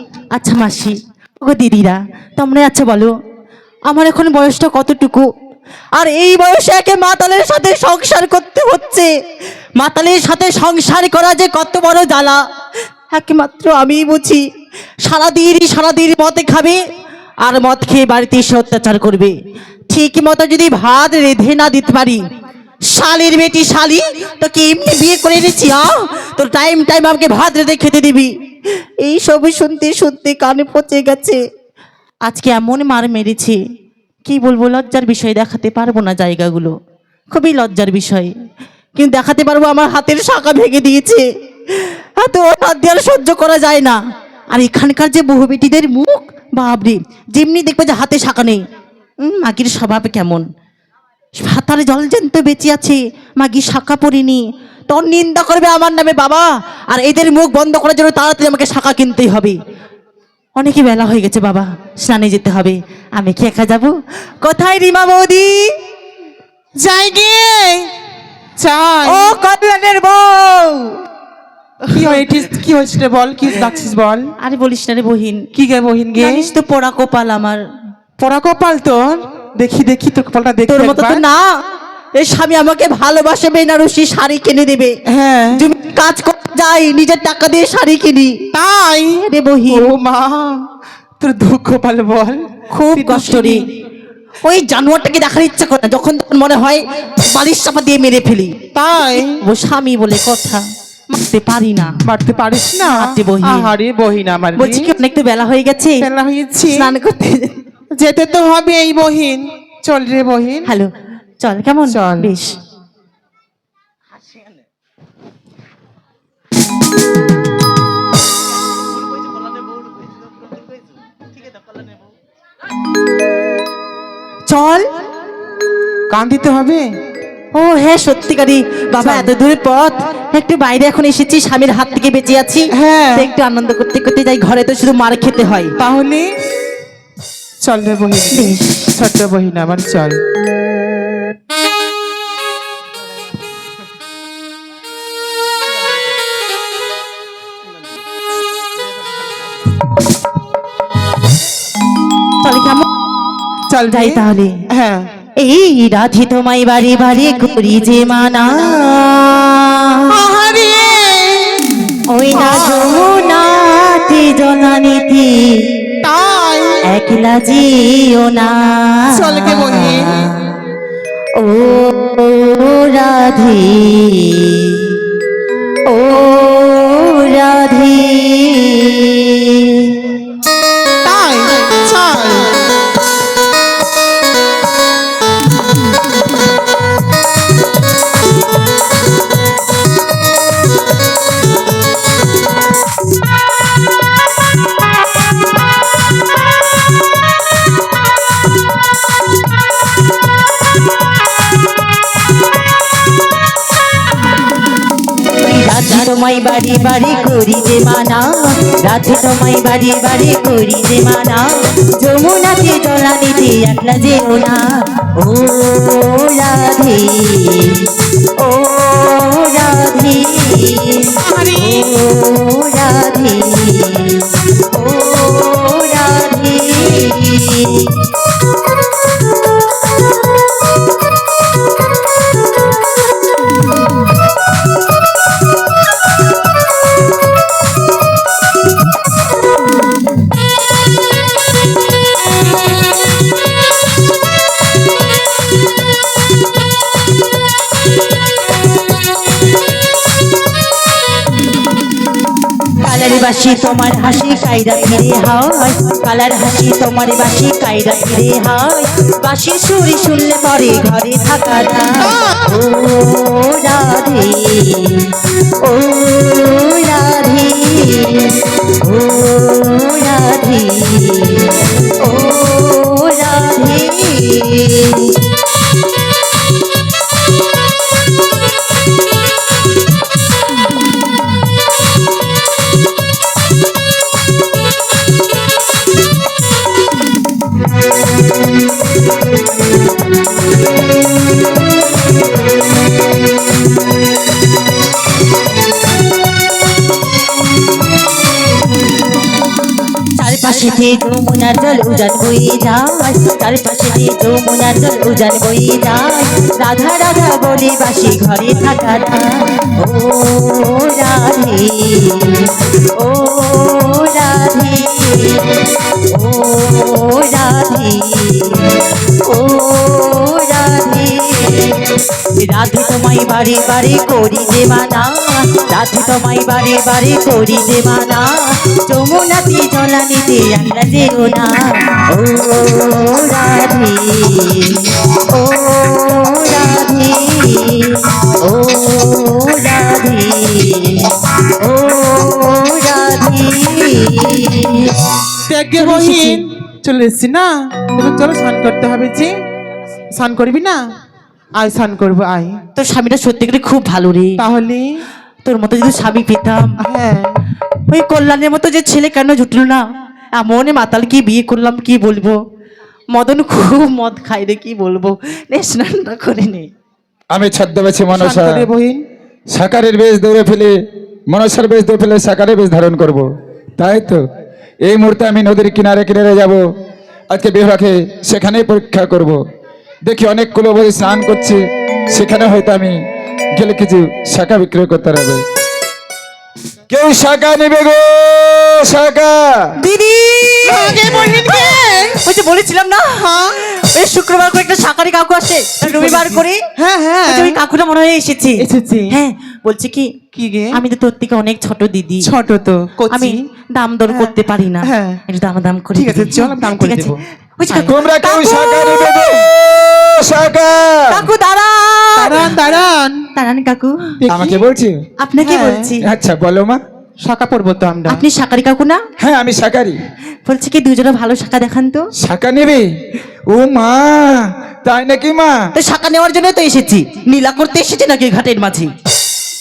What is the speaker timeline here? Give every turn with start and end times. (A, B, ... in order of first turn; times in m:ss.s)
0:00.3-0:03.1 A
0:03.9-0:05.2 A
0:06.0-0:09.1 A
0:09.8-0:12.4 A
0:13.1-0:14.4 A
0:15.0-0:16.8 A
0:17.4-0:19.3 A
0:19.9-0:22.2 A
0:22.9-0:28.3 A
0:29.0-0:31.4 A
0:32.2-0:33.6 A
0:34.2-0:36.7 A
0:37.3-0:38.3 A
0:39.0-0:41.2 A
0:41.8-0:44.0 A
0:44.5-0:48.6 A
0:49.2-0:50.4 A
0:51.4-0:59.6 A
1:00.6-1:03.9 A
1:04.4-1:05.7 A
1:06.8-1:07.9 B
1:08.6-1:10.8 B
1:09.1-1:09.5 A
1:11.9-1:14.3 B
1:11.9-1:12.2 A
1:14.4-1:15.4 A
1:15.5-1:16.5 B
1:16.2-1:17.6 A
1:18.2-1:21.2 B
1:20.7-1:21.4 A
1:22.1-1:24.9 A
1:25.1-1:25.6 B
1:25.5-1:28.4 A
1:28.5-1:30.6 B
1:29.3-1:29.9 A
1:31.2-1:32.4 B
1:32.7-1:33.7 A
1:32.9-1:33.7 B
1:34.4-1:38.6 A
1:38.7-1:39.4 B
1:39.2-1:41.9 A
1:42.1-1:44.9 B
1:42.9-1:43.7 A
1:44.6-1:46.0 A
1:46.0-1:46.9 B
1:46.7-1:47.5 A
1:48.0-1:50.7 B
1:50.7-1:52.5 A
1:51.9-1:52.3 B
2:04.5-2:04.8 A
2:06.1-2:06.8 B
2:07.5-2:15.7 A
2:09.0-2:09.3 B
2:12.8-2:13.3 B
2:15.8-2:16.2 B
2:17.6-2:20.2 B
2:18.3-2:18.6 A
2:32.4-2:32.8 A
2:33.7-2:35.1 B
2:33.9-2:34.5 A
2:35.4-2:40.1 A
2:40.1-2:41.6 B
2:42.1-2:45.7 A
2:42.3-2:43.1 B
2:46.0-2:46.9 B
2:46.9-2:50.3 A
2:49.1-2:50.3 B
2:51.3-2:54.9 A
2:55.9-3:00.2 A
3:01.0-3:02.5 B
3:25.4-3:31.5 A
3:32.0-3:34.6 A
3:35.2-3:37.8 A
3:38.4-3:47.9 A
3:41.2-3:41.9 B
4:12.8-4:25.1 A
4:22.0-4:22.4 B
4:25.6-4:31.5 A
4:32.0-4:35.1 A
5:00.2-5:09.3 A
5:09.8-5:15.5 A
5:16.1-5:18.7 A
5:19.2-5:21.9 A
5:22.4-5:41.1 A
5:41.6-5:45.0 A
5:45.5-5:49.3 B
5:45.8-5:46.4 A
5:50.2-5:50.8 B
5:51.6-5:52.6 B
5:52.8-5:54.4 A
5:54.4-5:54.8 B
5:55.4-5:56.7 A
5:56.8-5:57.3 B
5:57.9-5:59.8 A
6:00.3-6:02.4 A
6:03.1-6:06.7 A
6:07.3-6:08.6 C
6:08.2-6:09.0 B
6:09.5-6:10.8 C
6:11.3-6:13.2 C
6:13.8-6:14.2 C
6:14.8-6:16.6 C
6:17.3-6:19.4 C
6:20.1-6:21.6 C
6:22.1-6:23.0 C
6:23.6-6:25.4 C
6:26.9-6:29.6 C
6:29.8-6:31.7 A
6:30.6-6:32.2 B
6:32.2-6:36.6 A
6:33.2-6:33.6 B
6:35.8-6:37.6 B
6:37.2-6:40.1 A
6:38.6-6:39.2 B
6:40.3-6:40.8 B
6:40.7-6:42.3 A
6:42.2-6:43.4 B
6:43.1-6:49.3 A
6:44.1-6:45.2 B
6:46.0-6:47.2 B
6:47.7-6:51.2 C
6:51.1-6:52.6 A
6:52.2-6:53.3 B
6:53.4-6:54.1 A
6:54.2-6:54.6 B
6:54.3-6:55.0 C
6:55.2-6:56.0 A
6:55.4-6:55.9 B
6:56.0-6:56.8 C
6:57.2-6:58.2 B
6:58.1-6:59.0 A
6:59.2-7:00.0 C
7:00.4-7:02.1 A
7:02.2-7:02.8 C
7:03.5-7:05.6 C
7:05.7-7:08.9 A